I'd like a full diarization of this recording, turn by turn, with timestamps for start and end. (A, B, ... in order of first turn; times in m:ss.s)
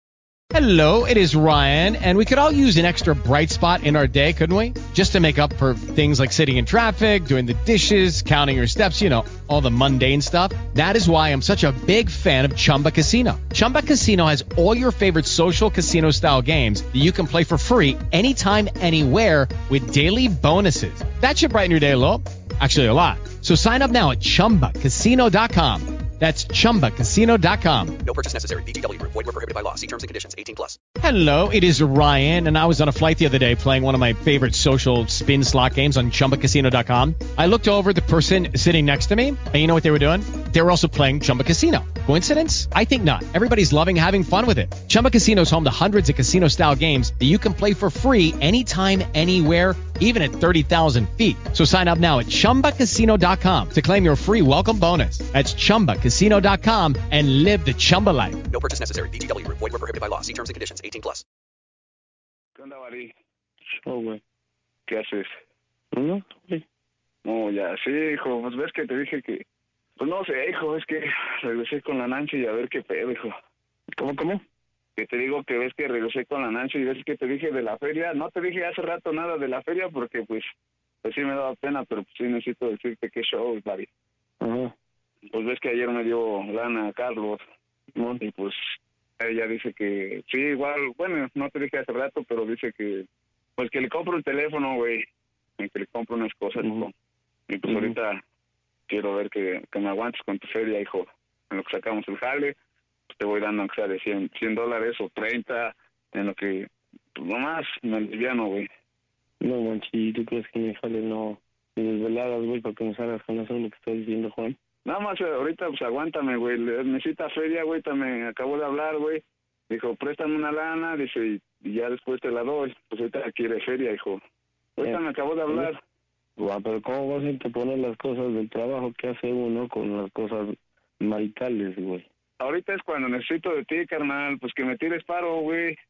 0:00.5-0:28.0 A
0:28.0-0:30.8 B
0:31.0-0:58.4 A
0:58.5-1:01.2 B
1:02.6-1:03.1 C
1:03.8-1:04.2 D
1:04.9-1:05.3 C
1:05.9-1:06.6 D
1:07.2-1:09.4 C
1:10.0-1:13.3 C
1:14.0-1:14.4 D
1:15.0-1:20.4 C
1:21.0-1:23.9 C
1:24.4-1:24.7 D
1:25.3-1:27.4 C
1:28.0-1:28.2 D
1:28.2-1:28.6 C
1:29.2-1:33.1 C
1:33.6-1:35.0 C
1:35.6-1:36.9 C
1:36.6-1:36.9 D
1:37.5-1:38.2 C
1:37.7-1:37.9 D
1:38.9-1:42.6 C
1:43.1-1:48.7 C
1:49.4-1:54.6 D
1:54.8-2:04.2 C
2:04.8-2:05.8 C
2:04.8-2:05.7 D
2:06.4-2:12.0 D
2:12.4-2:15.8 C